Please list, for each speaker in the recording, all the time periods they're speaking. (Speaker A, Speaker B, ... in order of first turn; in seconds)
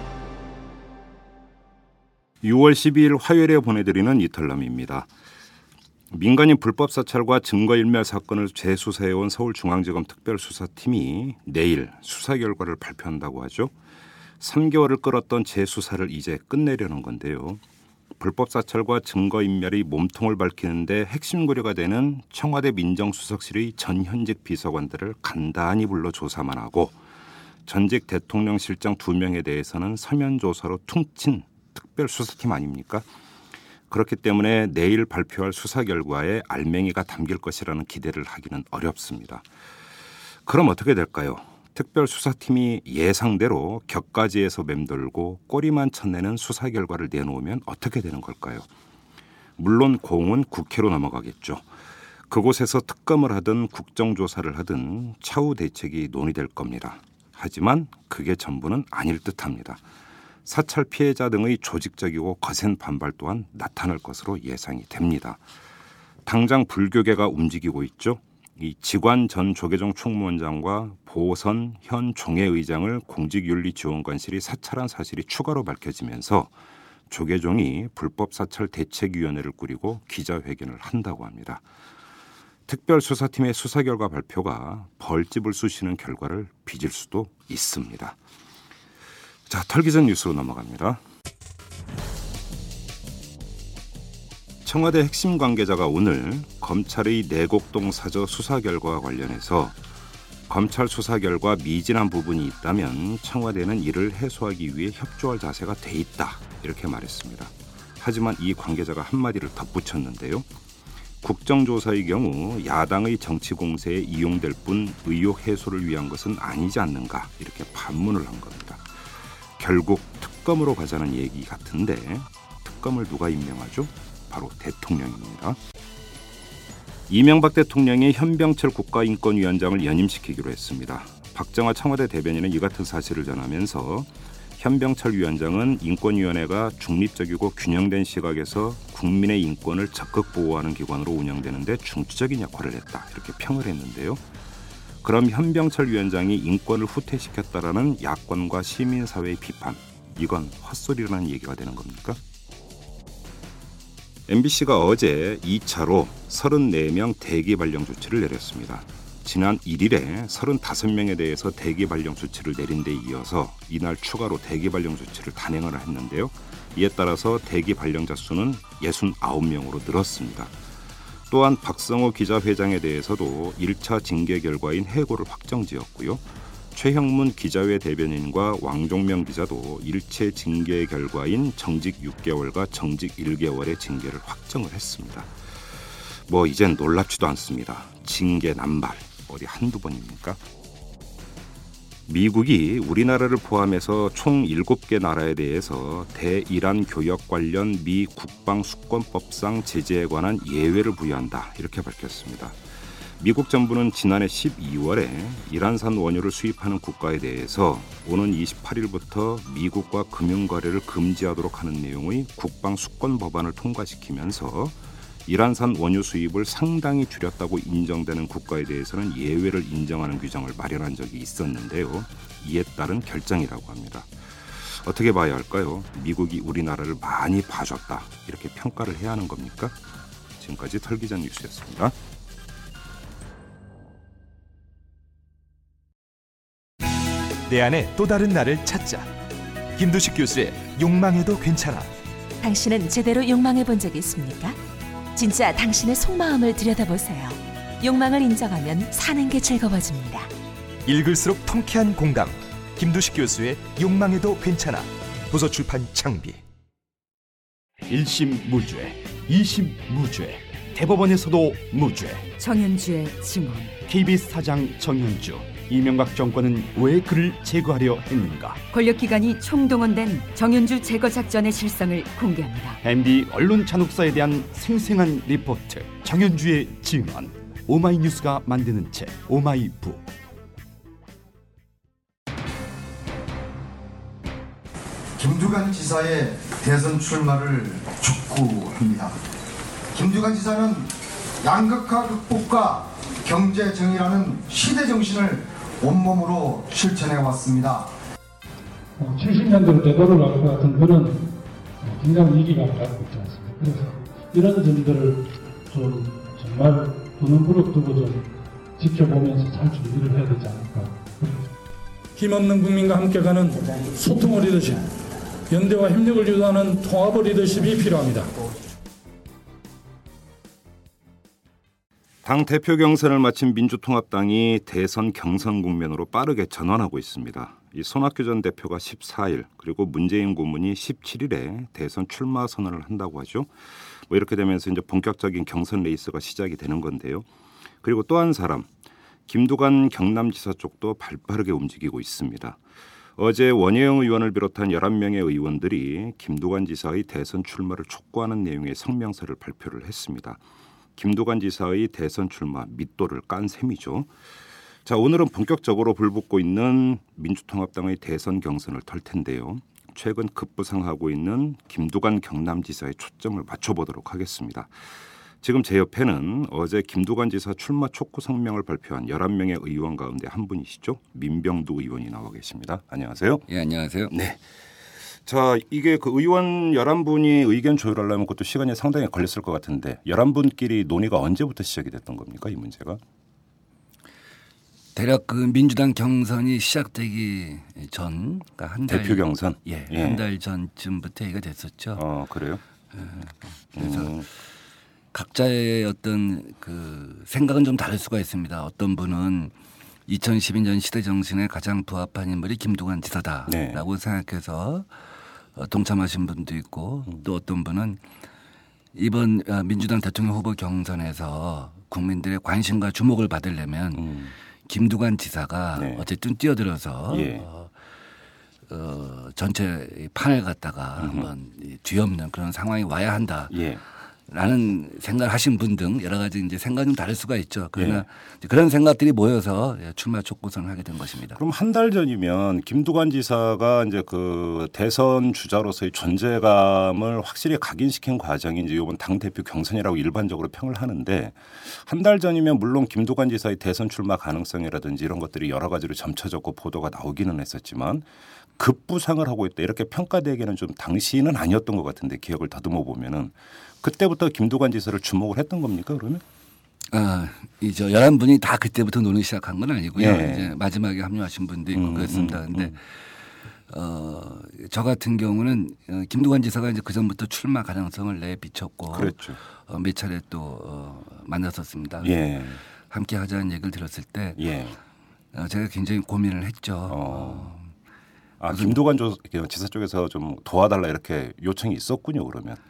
Speaker A: 2.4-5.1, 6.1-13.7, 14.4-17.6, 18.2-27.0, 27.6-33.0, 33.9-39.4, 40.5-48.6, 49.6-51.6, 52.3-59.8, 60.4-65.4, 66.2-76.5, 77.1-81.6, 82.7-88.2, 89.5-91.0, 94.6-99.8, 100.5-110.5, 111.2-118.8, 119.6-125.6, 127.1-144.2, 145.0-152.2, 154.3-170.5, 171.3-185.3, 186.3-190.4, 192.1-202.6, 203.2-229.8, 230.4-231.9, 322.2-333.5, 334.1-337.3, 337.8-338.7, 339.3-342.6, 343.2-350.4, 350.9-354.1, 354.8-364.7, 365.4-373.4, 374.1-374.4, 375.2-383.0, 388.9-390.2, 391.9-392.6, 393.7-394.3, 403.5-403.8, 413.9-414.3, 415.8-416.0, 417.1-417.4, 421.0-421.3, 423.5-423.8, 427.8-428.0, 431.4-448.1, 448.6-456.2, 459.9-460.6, 461.7-462.8, 468.9-469.4, 472.0-472.6, 474.4-474.8, 476.9-477.5, 478.4-482.6
Speaker B: 237.4-239.1, 239.8-241.9, 250.8-256.4
Speaker C: 242.4-244.6, 245.1-250.3
Speaker D: 257.9-262.3, 263.9-268.6, 272.8-280.1
Speaker E: 262.4-263.8, 268.7-272.8
Speaker F: 285.2-289.2, 289.9-297.9
Speaker G: 299.0-311.5, 312.1-314.9, 315.5-318.3
Speaker H: 373.5-374.1, 384.9-392.0, 392.9-394.1, 395.1-399.5, 400.1-404.9, 405.6-408.0, 408.9-414.1, 414.7-417.7, 418.7-423.6, 424.3-431.4, 456.9-462.8, 463.7-472.3, 472.9-474.4, 475.3-477.7, 478.5-478.8